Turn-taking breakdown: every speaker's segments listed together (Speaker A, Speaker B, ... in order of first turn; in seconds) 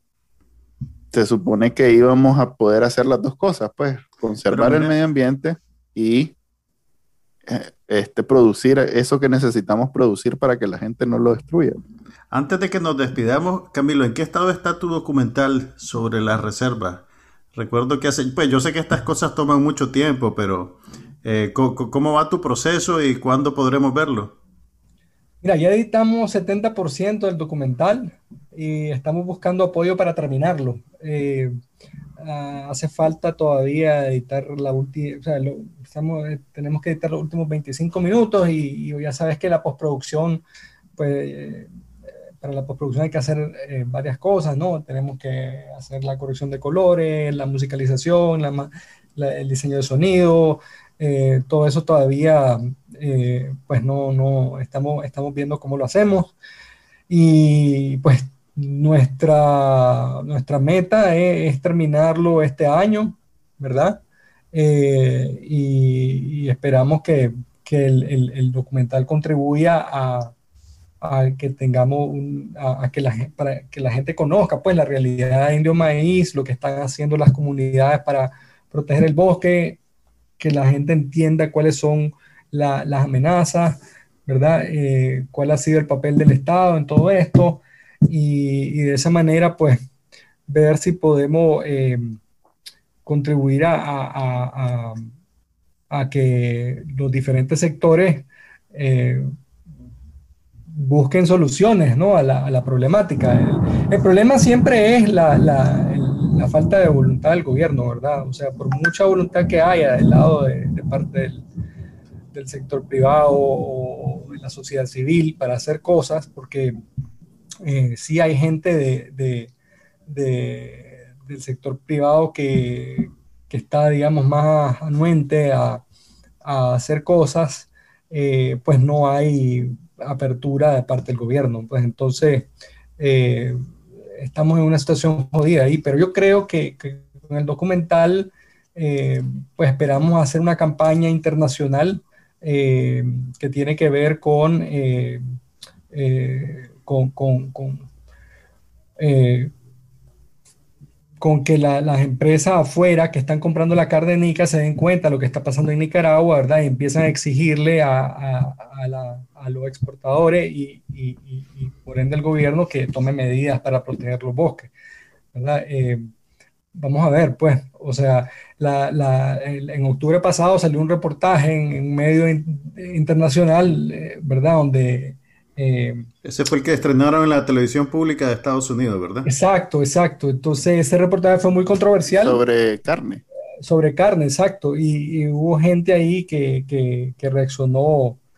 Speaker A: 1.1-6.3, 7.5-11.8, 182.1-183.2
Speaker B: 4.5-4.9, 12.3-17.0, 17.5-24.4, 176.2-179.3
Speaker C: 25.4-31.6, 32.2-40.4, 41.0-41.7, 42.4-56.3, 57.1-64.0, 64.5-70.3, 71.0-79.8, 80.4-89.8, 90.5-92.2, 93.0-95.1, 95.9-99.3, 100.7-111.4, 112.3-116.8, 117.6-119.5, 120.1-125.8, 126.4-133.6, 134.2-145.2, 145.9-147.9, 149.0-149.5, 151.2-164.7, 165.3-166.1, 166.8-176.1, 179.2-182.4, 183.6-188.2